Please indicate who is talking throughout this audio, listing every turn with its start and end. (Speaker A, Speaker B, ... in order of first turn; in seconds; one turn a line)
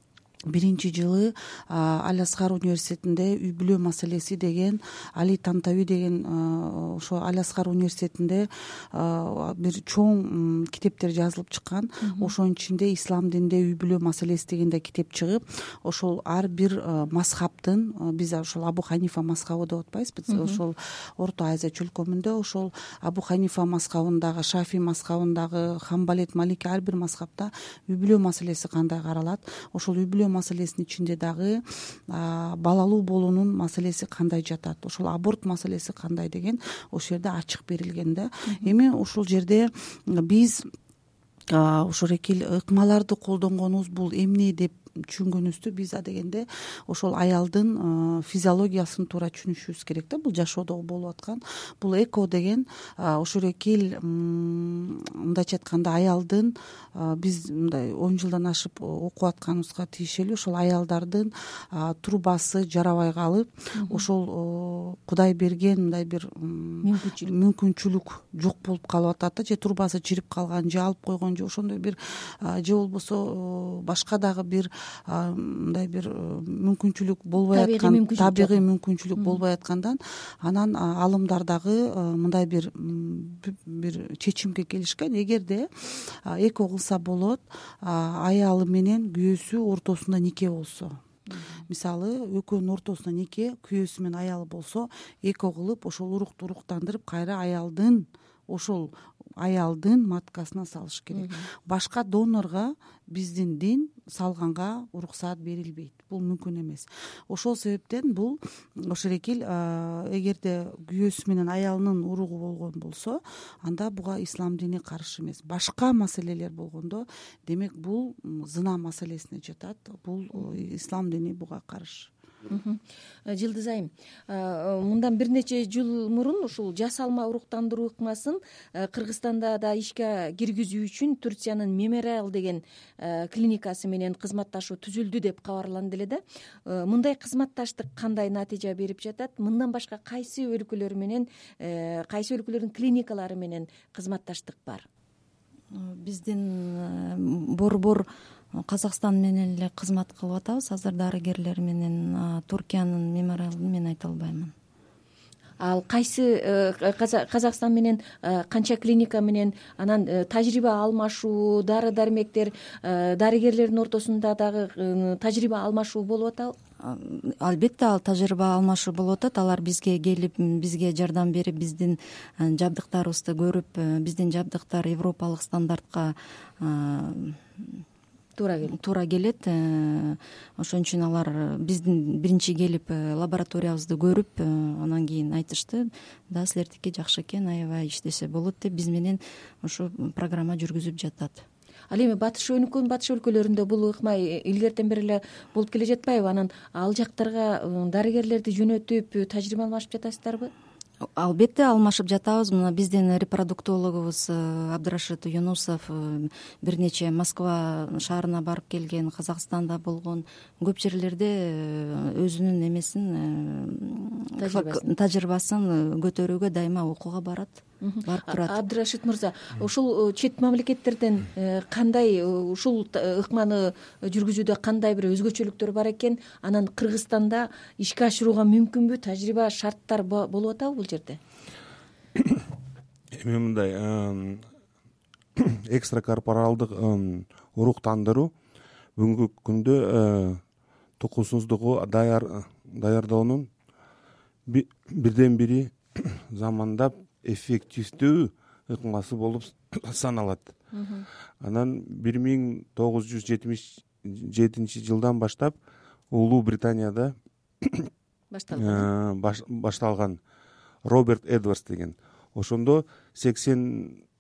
Speaker A: 0.5-31.6
Speaker B: 12.0-12.3
Speaker B: 20.3-20.6
Speaker A: 32.1-40.6
Speaker B: 38.5-38.7
Speaker A: 41.5-91.0
Speaker B: 63.8-64.0
Speaker B: 66.8-67.3
Speaker B: 77.4-78.6
Speaker B: 91.3-91.6
Speaker A: 91.7-122.1
Speaker B: 101.1-101.5
Speaker B: 122.5-144.9
Speaker C: 145.7-154.5
Speaker B: 155.6-166.6
Speaker C: 166.8-177.8
Speaker B: 178.4-178.8
Speaker C: 178.7-191.4
Speaker B: 191.9-200.5
Speaker C: 201.2-218.6
Speaker B: 214.4-214.9
Speaker B: 217.8-231.2
Speaker D: 232.2-232.5
Speaker D: 233.1-234.5
Speaker D: 235.4-238.3
Speaker D: 239.0-240.4
Speaker D: 241.0-243.5
Speaker D: 244.5-250.5
Speaker B: 250.7-251.1
Speaker D: 251.4-255.6
Speaker D: 256.1-257.9
Speaker B: 258.3-258.9
Speaker D: 258.5-260.2
Speaker D: 260.9-264.0